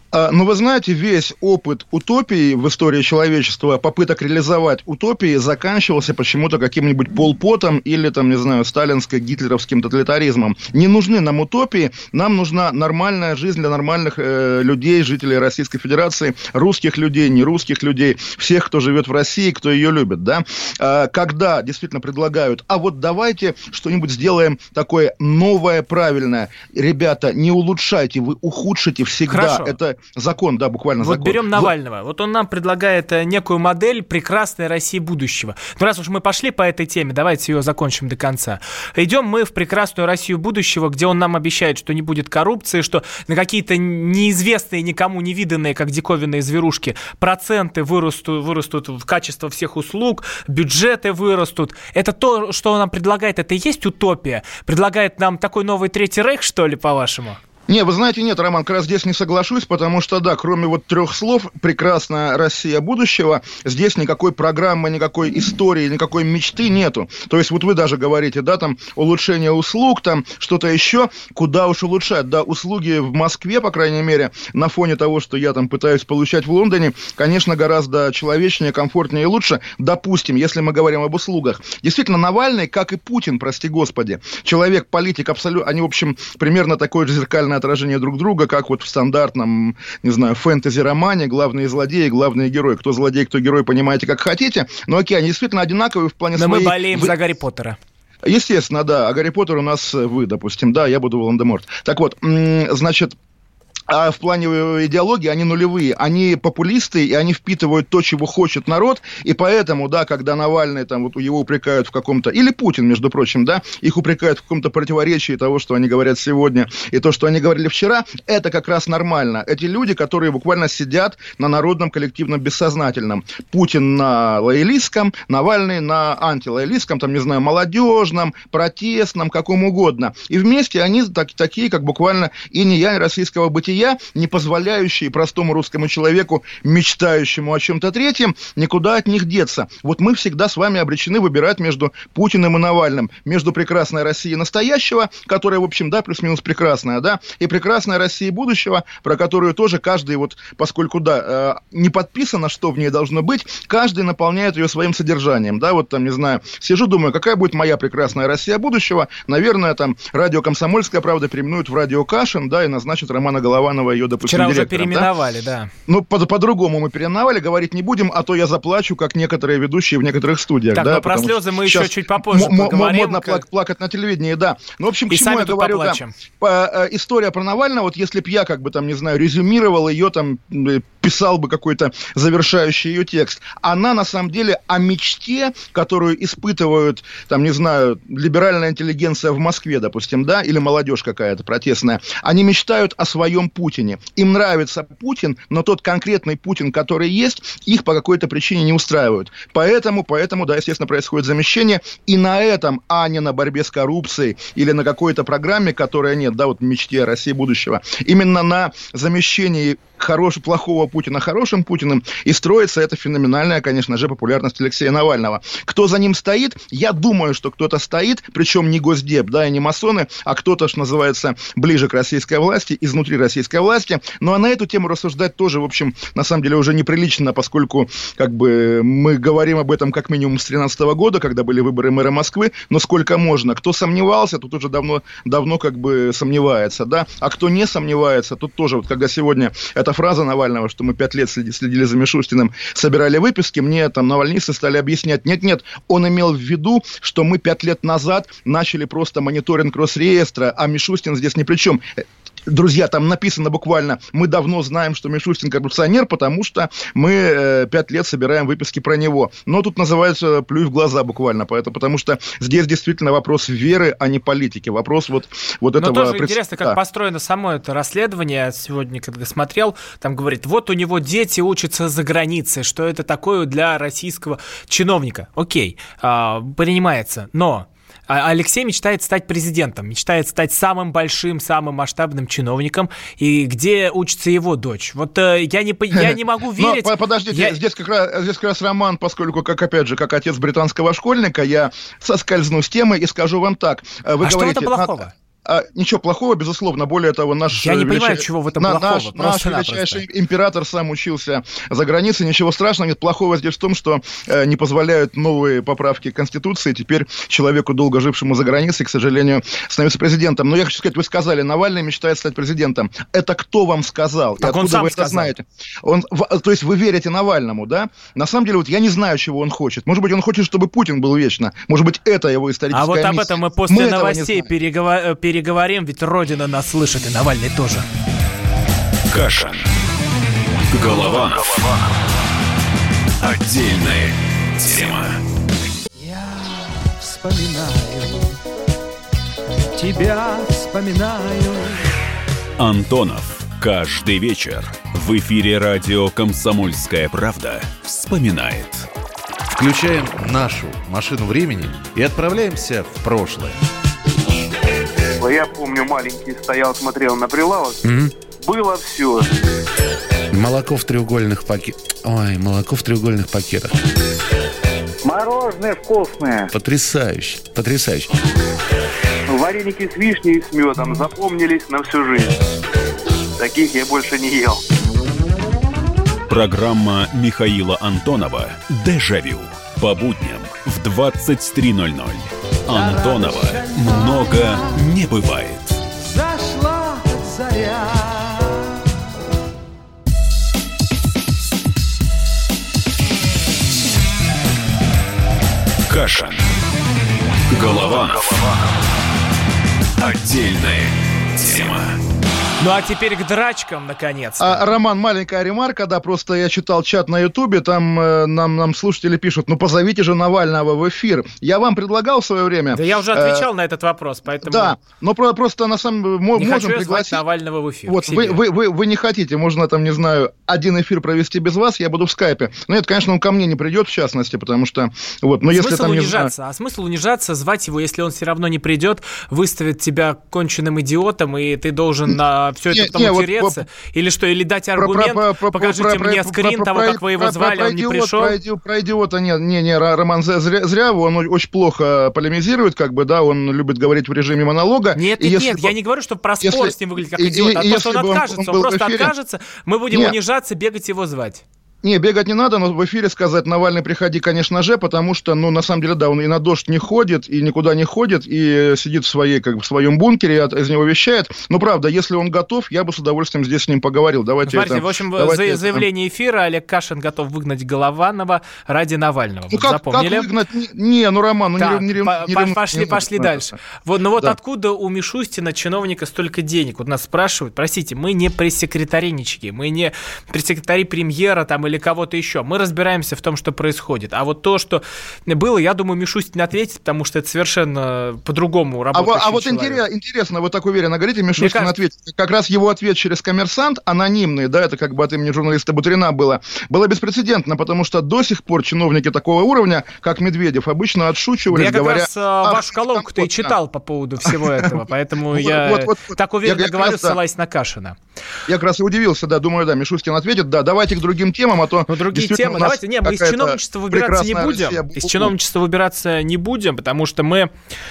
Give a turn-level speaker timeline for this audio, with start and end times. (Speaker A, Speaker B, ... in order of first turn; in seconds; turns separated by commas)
Speaker A: 0.1-31.7, Speaker B: 29.3-29.8, Speaker B: 31.0-57.4, Speaker A: 57.7-97.1, Speaker B: 96.3-97.8, Speaker A: 98.2-103.1, Speaker A: 103.9-165.1, Speaker B: 164.2-165.7, Speaker A: 165.9-266.8, Speaker B: 170.7-173.4, Speaker B: 175.1-176.1, Speaker B: 265.8-287.6, Speaker A: 285.9-324.5, Speaker B: 294.2-295.1, Speaker B: 297.5-300.0, Speaker B: 314.4-315.3, Speaker B: 322.7-327.9, Speaker C: 329.1-329.6, Speaker C: 330.7-331.6, Speaker C: 333.2-335.2, Speaker D: 336.0-338.3, Speaker D: 339.7-341.8, Speaker C: 342.6-348.9, Speaker E: 349.5-353.5, Speaker F: 355.2-357.8, Speaker E: 357.8-358.1, Speaker F: 358.4-359.3, Speaker E: 360.3-363.8, Speaker F: 365.0-366.5, Speaker E: 366.5-368.1, Speaker F: 369.3-372.4, Speaker F: 373.4-374.6, Speaker C: 376.3-385.8, Speaker D: 382.7-384.8, Speaker D: 386.0-388.6, Speaker C: 395.9-396.4, Speaker C: 397.5-398.4, Speaker C: 400.0-401.9, Speaker B: 402.6-404.6, Speaker A: 404.4-413.5, Speaker B: 412.7-414.8, Speaker A: 414.4-417.2, Speaker B: 416.4-418.4, Speaker A: 417.9-426.3, Speaker B: 425.5-438.4, Speaker A: 432.7-433.6, Speaker A: 434.8-445.7, Speaker B: 444.9-451.4, Speaker A: 446.4-449.1, Speaker A: 451.8-465.9, Speaker B: 464.5-470.3, Speaker A: 469.5-473.5, Speaker B: 471.6-489.8, Speaker A: 488.9-503.5, Speaker B: 491.4-491.8, Speaker B: 501.5-508.0, Speaker A: 504.2-507.2, Speaker A: 508.5-515.3, Speaker B: 511.9-517.5